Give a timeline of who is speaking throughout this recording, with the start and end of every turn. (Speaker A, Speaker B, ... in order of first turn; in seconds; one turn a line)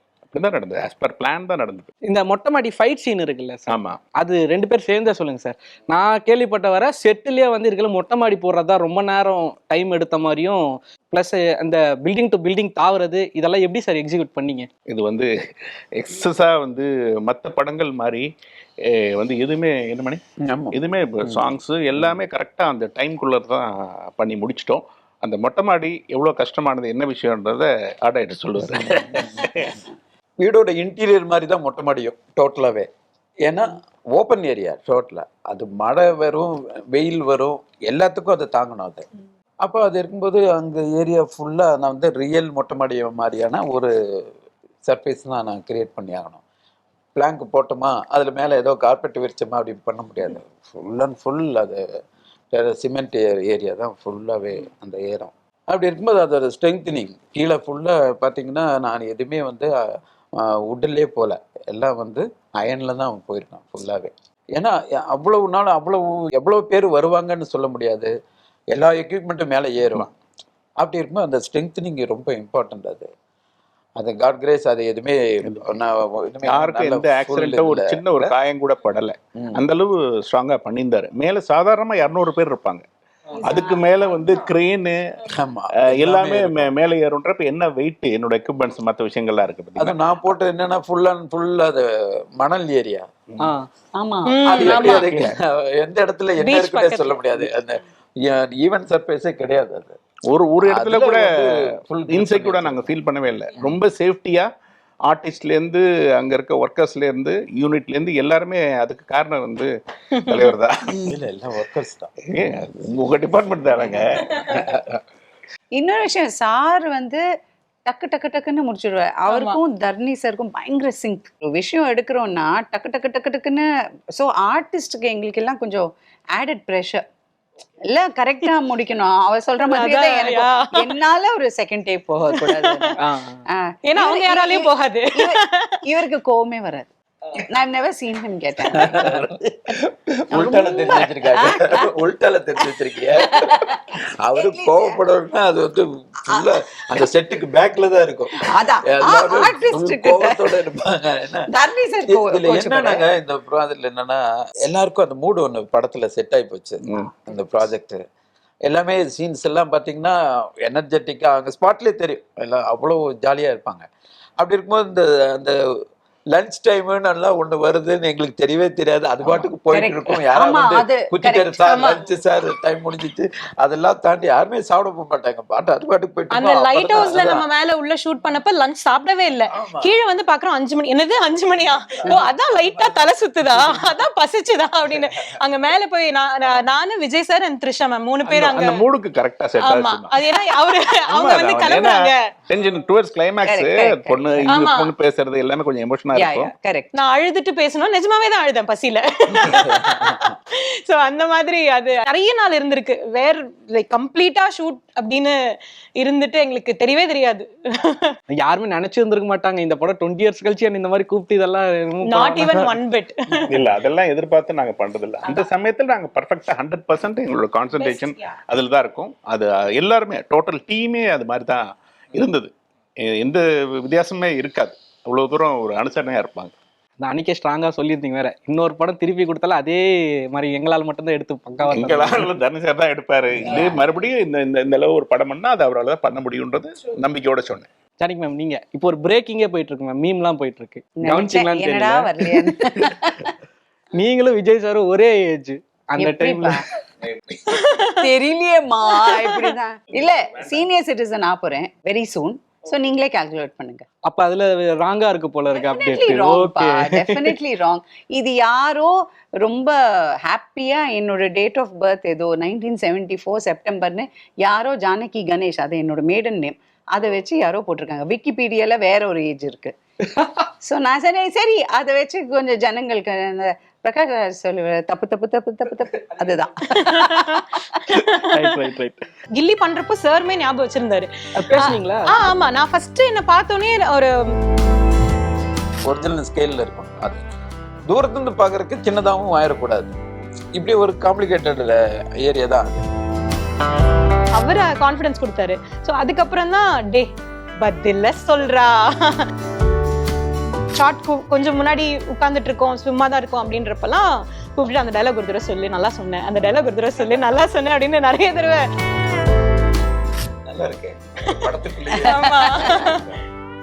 Speaker A: 0.3-1.9
Speaker B: 2.1-14.7
Speaker A: 3.7-4.0
Speaker A: 14.9-15.3
Speaker A: 15.9-18.3
Speaker A: 18.8-29.8
Speaker C: 20.4-22.2
Speaker C: 28.8-29.7
Speaker C: 30.4-32.9
Speaker C: 33.4-39.1
Speaker C: 39.6-44.3
Speaker C: 44.8-46.4
Speaker C: 47.1-51.9
Speaker C: 52.5-68.1
Speaker C: 68.7-70.1
Speaker C: 70.8-73.1
Speaker C: 74.0-78.3
Speaker A: 76.5-82.8
Speaker C: 79.4-79.6
Speaker A: 83.4-85.0
Speaker C: 85.2-86.7
Speaker A: 85.9-90.0
Speaker C: 89.8-93.1
Speaker B: 93.4-93.7
Speaker D: 94.0-95.1
Speaker E: 94.3-95.1
Speaker C: 94.5-100.0
Speaker E: 96.4-97.2
Speaker A: 100.3-104.5
Speaker C: 100.6-102.8
Speaker A: 105.1-109.7
Speaker E: 110.1-110.5
Speaker A: 110.2-110.8
Speaker C: 111.0-112.2
Speaker A: 112.3-115.0
Speaker D: 115.8-117.2
Speaker D: 117.9-127.0
Speaker E: 119.3-119.6
Speaker D: 127.9-139.3
Speaker E: 129.6-131.0
Speaker E: 132.3-132.9
Speaker B: 133.0-133.4
Speaker E: 133.9-135.8
Speaker C: 138.7-143.7
Speaker D: 140.3-141.9
Speaker D: 143.1-145.0
Speaker C: 144.2-151.5
Speaker D: 146.3-147.1
Speaker D: 148.4-150.6
Speaker D: 151.5-153.1
Speaker C: 152.1-158.0
Speaker C: 158.7-163.9
Speaker C: 164.4-165.6
Speaker C: 166.3-177.4
Speaker D: 169.7-172.0
Speaker E: 171.7-172.0
Speaker E: 176.3-188.8
Speaker C: 179.5-179.9
Speaker C: 182.8-183.9
Speaker A: 188.3-190.2
Speaker E: 189.6-192.3
Speaker A: 191.1-192.0
Speaker A: 192.5-196.5
Speaker D: 193.4-194.5
Speaker E: 194.5-194.9
Speaker D: 196.1-196.9
Speaker E: 196.9-205.4
Speaker C: 199.4-200.4
Speaker E: 206.0-208.1
Speaker B: 208.3-212.8
Speaker E: 212.1-213.6
Speaker A: 213.5-222.5
Speaker E: 217.8-218.3
Speaker A: 223.0-226.5
Speaker B: 227.0-232.3
Speaker A: 231.7-237.7
Speaker C: 233.4-233.9
Speaker B: 238.0-242.6
Speaker D: 241.0-243.3
Speaker B: 243.9-246.6
Speaker D: 246.0-246.7
Speaker A: 247.0-247.4
Speaker E: 247.5-248.1
Speaker D: 247.9-253.9
Speaker E: 249.0-249.5
Speaker B: 254.0-257.4
Speaker D: 255.5-269.8
Speaker D: 270.6-277.8
Speaker E: 276.7-278.6
Speaker B: 278.2-279.0
Speaker E: 279.4-284.3
Speaker B: 281.4-282.2
Speaker C: 285.8-287.2
Speaker C: 287.9-289.9
Speaker C: 290.6-292.9
Speaker E: 294.4-297.1
Speaker E: 297.6-299.3
Speaker E: 300.8-308.7
Speaker C: 310.5-313.2
Speaker D: 311.9-312.9
Speaker E: 312.0-313.0